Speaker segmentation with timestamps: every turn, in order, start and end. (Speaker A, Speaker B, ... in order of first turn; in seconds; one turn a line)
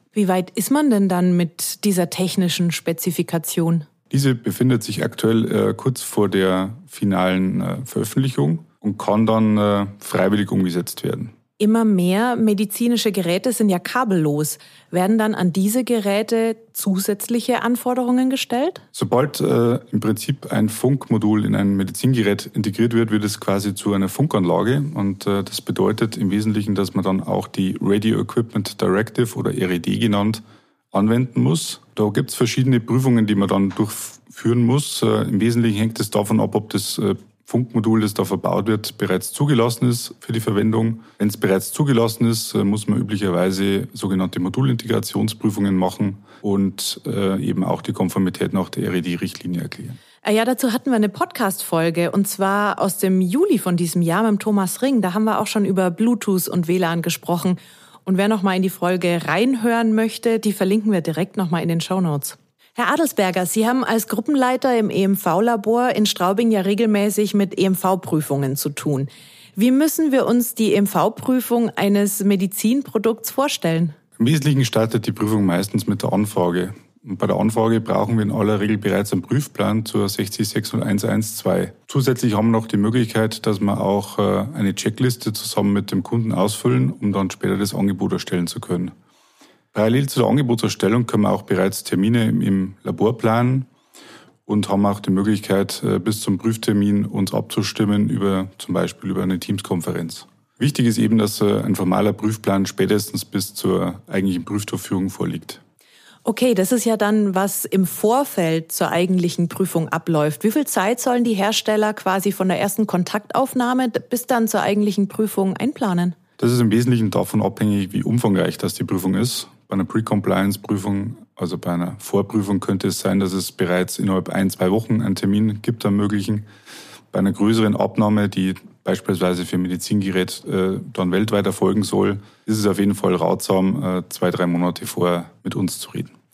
Speaker A: 0.1-3.9
Speaker B: 4.1-11.3
Speaker A: 11.6-18.8
Speaker B: 18.9-50.0
Speaker A: 50.2-73.9
Speaker B: 74.2-88.9
Speaker B: 89.7-93.7
Speaker B: 94.5-105.6
Speaker A: 106.2-116.2
Speaker B: 116.4-126.5
Speaker B: 127.1-136.1